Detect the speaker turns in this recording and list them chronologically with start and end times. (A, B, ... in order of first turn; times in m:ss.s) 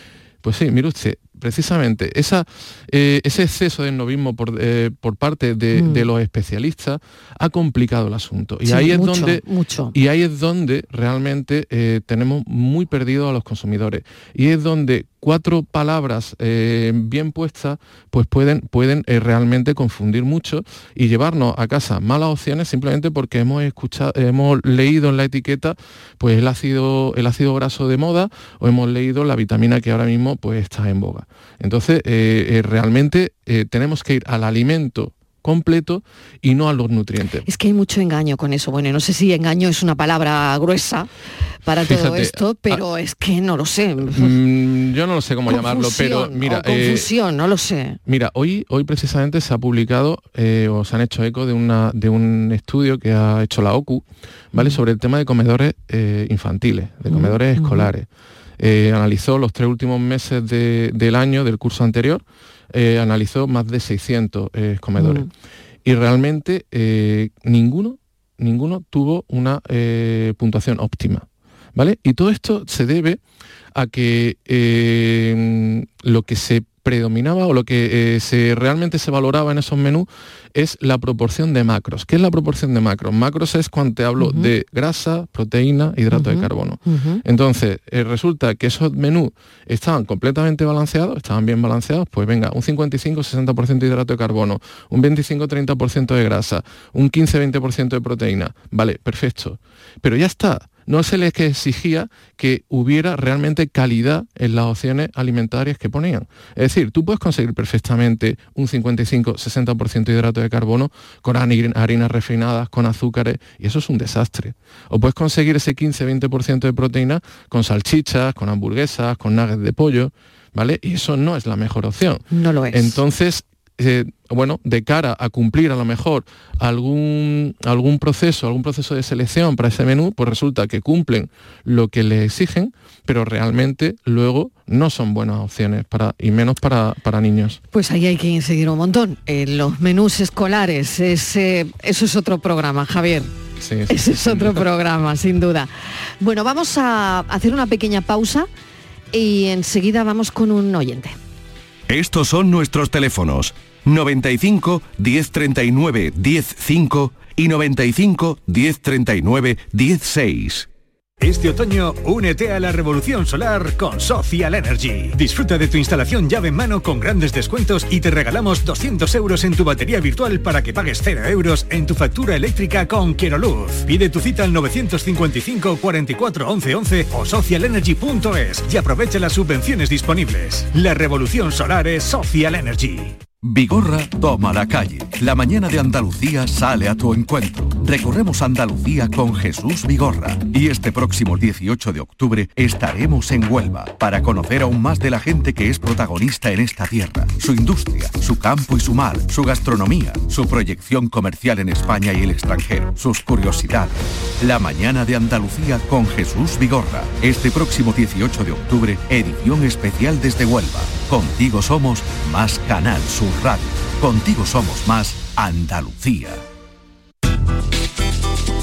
0:00.4-0:09.4 A
0:05.8-0:06.1 B
0:08.7-0:10.0 B
0:09.9-0:37.4 A
0:37.4-0:41.1 B
0:41.6-0:44.4 B
0:41.8-0:42.8 A
0:44.1-0:47.1 A
0:45.5-0:48.0 B
0:48.1-0:58.1 A
0:57.1-0:57.9 B
0:58.6-1:05.3 A
1:05.0-1:05.3 B
1:05.8-1:13.2 A
1:13.7-2:17.6 A
1:24.2-1:24.5 B
1:26.1-1:27.2 B
2:02.3-2:03.0 B
2:17.7-2:23.3 B
2:23.6-2:24.6 A
2:23.9-2:28.5 B
2:29.1-2:31.2 B
2:31.9-2:40.7 C
2:41.2-3:03.2 D
3:03.4-3:36.4 E